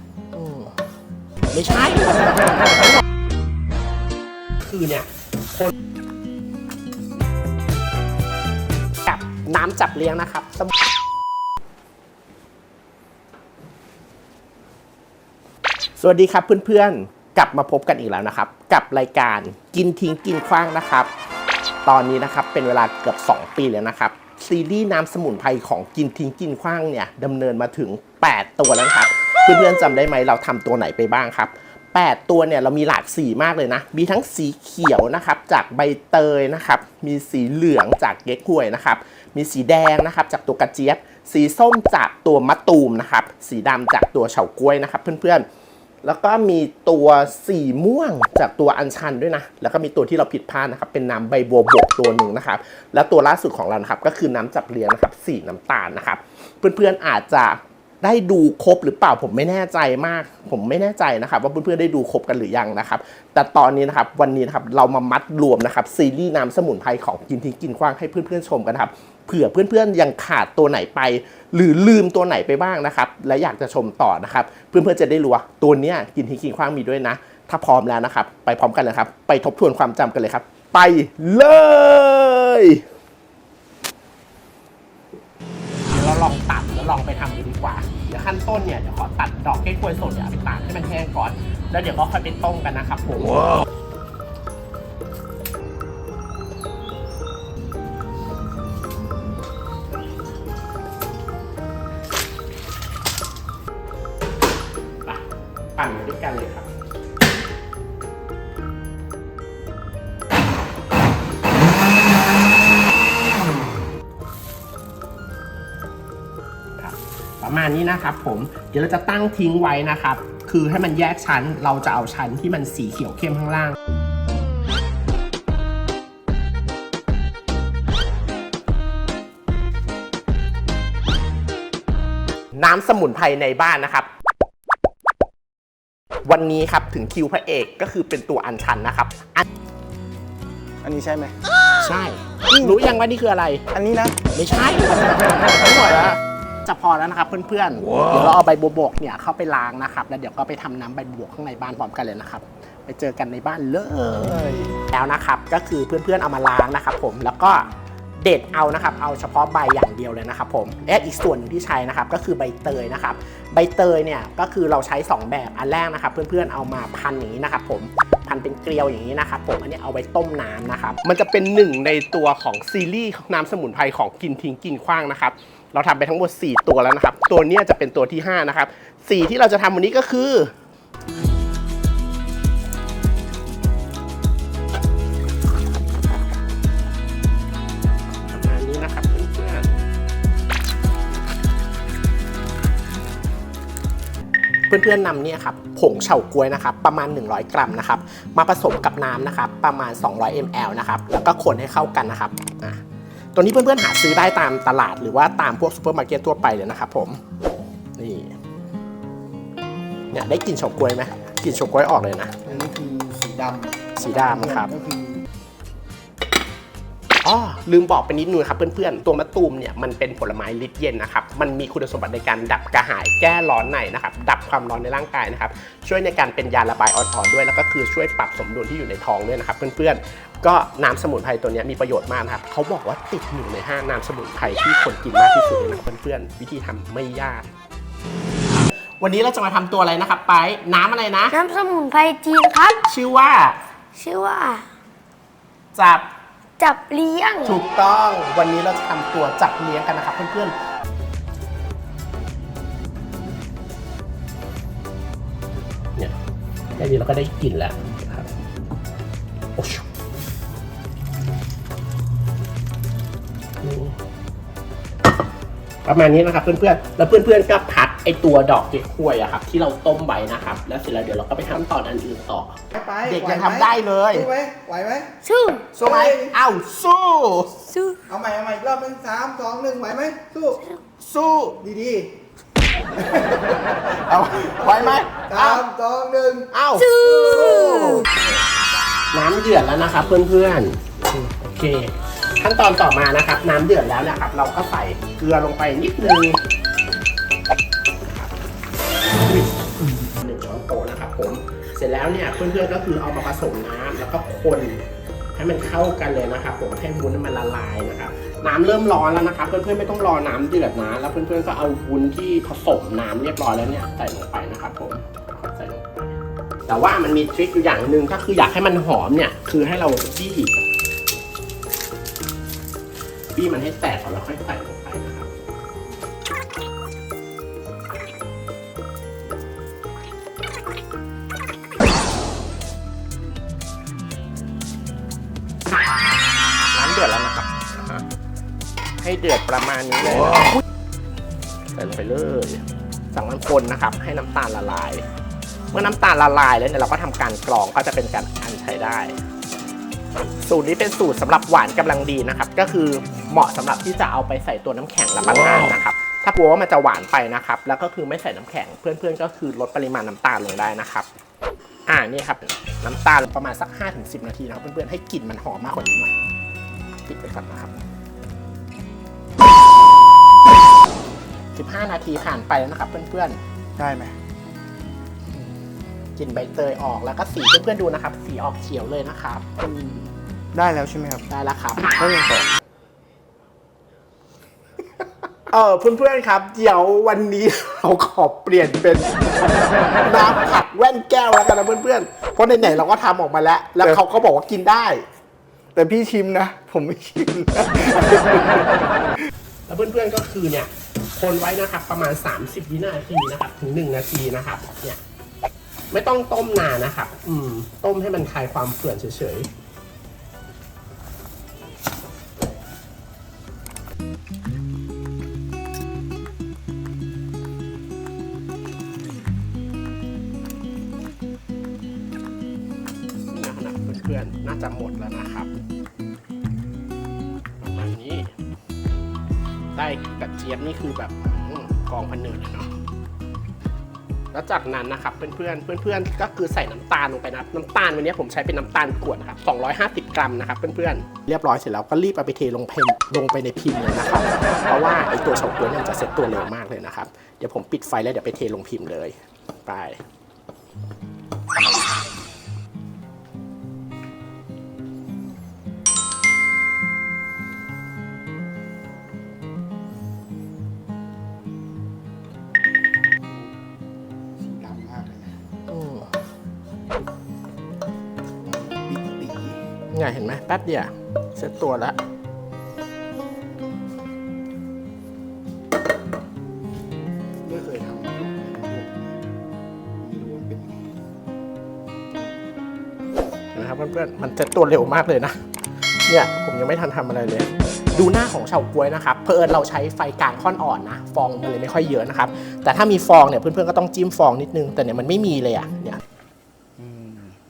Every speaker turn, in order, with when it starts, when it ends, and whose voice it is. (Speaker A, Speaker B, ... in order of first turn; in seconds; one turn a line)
Speaker A: 0.3-0.8
Speaker A: 1.5-3.0
Speaker A: 4.6-5.7
Speaker A: 9.0-10.8
Speaker A: 16.0-21.1
Speaker A: 21.9-45.5
Speaker A: 46.0-82.8
Speaker A: 85.8-93.6
Speaker A: 105.8-106.7
Speaker A: 116.8-123.8
Speaker A: 132.5-134.1
Speaker A: 136.2-139.4
Speaker B: 140.8-141.3
Speaker A: 141.8-143.6
Speaker B: 143.7-144.2
Speaker A: 144.3-157.7
Speaker A: 158.2-180.5
Speaker A: 188.3-189.8
Speaker A: 194.7-202.8
Speaker A: 203.3-207.2
Speaker A: 208.0-208.3
Speaker A: 210.1-212.4
Speaker B: 212.4-215.2
Speaker A: 214.0-214.7
Speaker A: 217.2-237.5
Speaker A: 239.0-241.4
Speaker C: 241.3-242.8
Speaker A: 242.8-243.6
Speaker C: 244.0-244.7
Speaker A: 245.8-246.1
Speaker C: 246.6-247.6
Speaker A: 247.4-250.5
Speaker A: 256.8-258.3
Speaker A: 259.6-259.9
Speaker A: 263.6-263.9
Speaker A: 265.9-274.3
Speaker B: 272.7-275.1
Speaker C: 275.2-275.7
Speaker A: 275.7-277.7
Speaker B: 275.8-276.4
Speaker C: 277.7-278.0
Speaker B: 278.1-280.6
Speaker A: 281.0-281.6
Speaker B: 281.6-282.1
Speaker B: 282.9-283.8
Speaker A: 283.9-285.7
Speaker B: 284.3-286.5
Speaker A: 286.5-288.3
Speaker C: 286.9-288.1
Speaker A: 289.1-296.4
Speaker A: 298.1-298.3
Speaker A: 299.2-316.1
Speaker A: 316.7-320.5
Speaker A: 323.4-325.3
Speaker A: 336.7-338.1
Speaker A: 339.0-340.6
Speaker A: 341.7-342.6
Speaker A: 343.1-345.1
Speaker A: 345.7-349.2
Speaker A: 350.4-361.1
Speaker A: 361.9-366.1
Speaker A: 367.1-367.7
Speaker A: 371.5-373.4
Speaker B: 373.8-374.2
Speaker A: 376.2-379.4
Speaker B: 379.6-381.3
Speaker A: 381.3-381.9
Speaker B: 382.0-382.5
Speaker A: 385.5-389.3
Speaker A: 390.0-395.1
Speaker B: 395.8-398.7
Speaker A: 399.7-405.0
Speaker A: 405.9-409.5
Speaker A: 423.3-425.5
Speaker A: 427.6-428.3
Speaker A: 429.8-432.7
Speaker A: 434.3-450.0
Speaker B: 463.2-463.5
Speaker B: 464.4-465.4
Speaker A: 465.7-466.1
Speaker B: 468.4-469.6
Speaker A: 469.9-472.0
Speaker B: 477.4-479.2
Speaker B: 480.0-481.0
Speaker A: 483.5-485.4
Speaker A: 486.1-496.0
Speaker B: 496.8-497.4